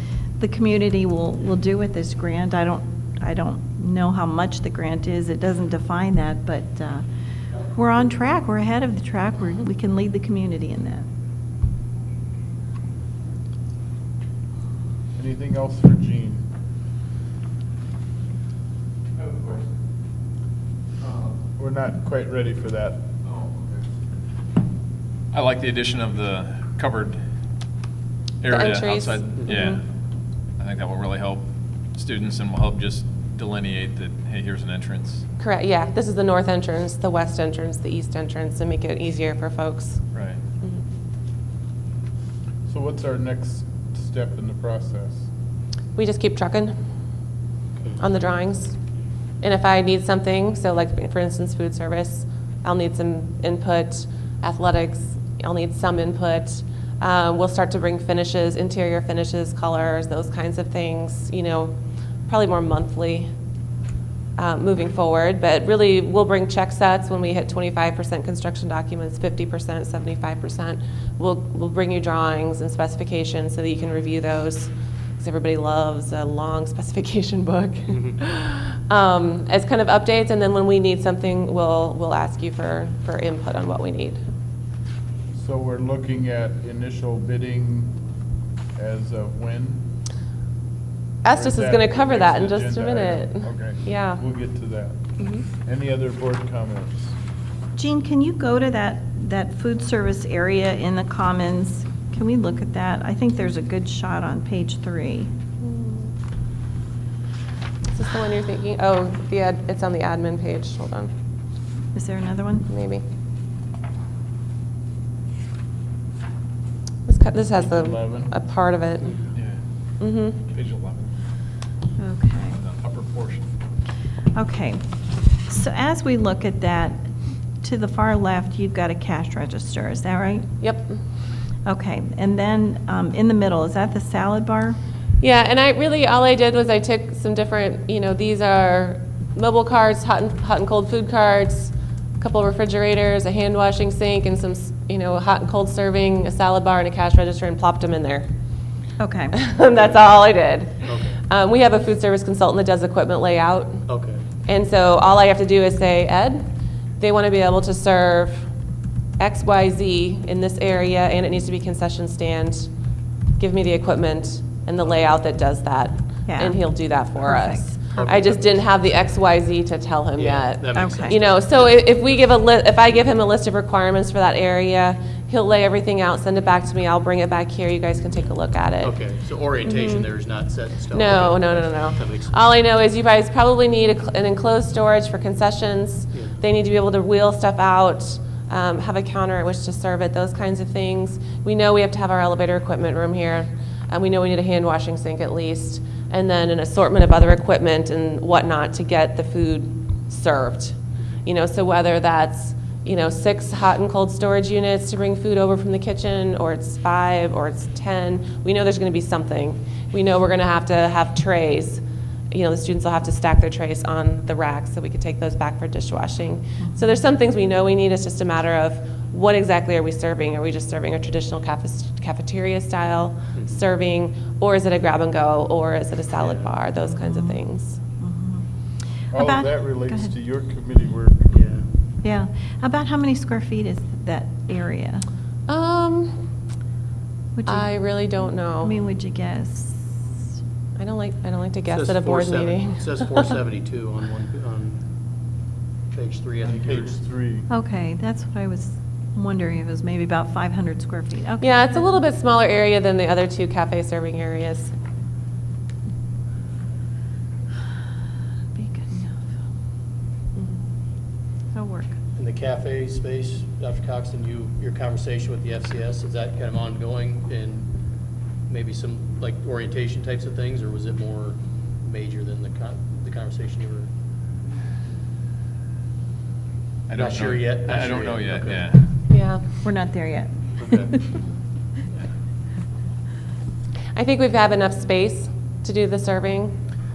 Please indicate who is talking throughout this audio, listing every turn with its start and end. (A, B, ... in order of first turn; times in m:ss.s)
0:00.4-0:07.0 A
0:07.7-0:11.1 A
0:15.2-0:16.5 B
0:19.2-0:19.7 C
0:21.0-0:21.4 C
0:21.6-0:23.1 B
0:23.2-0:23.6 C
0:25.3-0:27.2 C
0:28.4-0:29.8 C
0:28.5-0:29.8 D
0:30.6-0:35.2 C
0:35.4-0:40.0 D
0:40.1-0:40.4 C
0:42.7-0:45.3 B
0:46.0-0:46.8 D
0:47.8-0:48.0 E
0:48.0-0:48.8 D
0:49.4-1:01.7 D
1:02.3-1:03.3 D
1:04.4-1:24.2 D
1:17.9-1:18.2 E
1:25.4-1:28.0 B
1:28.8-1:29.8 B
1:31.2-1:34.2 D
1:31.3-1:35.0 B
1:35.2-1:35.4 D
1:35.6-1:37.2 B
1:37.8-1:45.3 A
1:45.6-1:46.1 D
1:47.9-1:51.1 D
1:51.9-1:52.7 A
1:52.7-1:53.0 D
1:57.1-1:59.2 D
1:57.6-1:58.3 B
2:00.0-2:00.4 D
2:00.5-2:01.1 C
2:02.0-2:02.6 A
2:02.5-2:03.5 C
2:04.4-2:04.8 A
2:05.4-2:07.0 A
2:07.6-2:10.5 A
2:10.6-2:11.0 D
2:11.6-2:14.8 A
2:15.2-2:28.3 D
2:29.0-2:29.4 A
2:29.3-2:33.8 D
2:30.8-2:31.2 E
2:33.9-2:34.2 E
2:34.5-2:36.4 D
2:37.0-2:38.5 D
2:39.2-2:42.7 D
2:43.4-2:59.0 D
2:46.3-2:47.8 A
2:47.9-2:48.6 E
2:50.2-2:51.8 E
2:50.8-2:51.2 A
2:58.8-3:02.5 E
2:59.6-3:00.1 D
3:00.9-3:47.8 D
3:06.1-3:06.4 E
3:43.4-3:43.6 E
3:46.2-3:46.5 E
3:46.9-3:47.4 A
3:48.0-3:48.4 A
3:49.1-3:51.3 B
3:49.1-3:50.1 A
3:51.3-3:51.7 E
3:52.0-3:55.1 A
3:55.5-3:56.2 D
3:57.4-3:57.7 A
3:57.4-3:58.7 D
3:58.6-3:59.9 A
4:00.8-4:03.2 D
4:01.7-4:04.9 E
4:05.9-4:07.0 E
4:06.4-4:07.5 B
4:07.5-4:12.0 A
4:11.4-4:14.7 D
4:18.5-4:19.3 A
4:21.5-4:21.9 A
4:22.2-4:27.8 E
4:28.5-4:33.9 E
4:36.9-4:39.1 C
4:37.0-4:38.7 E
4:39.1-4:39.4 D
4:39.6-4:41.0 A
4:40.6-4:41.0 E
4:44.0-4:46.6 D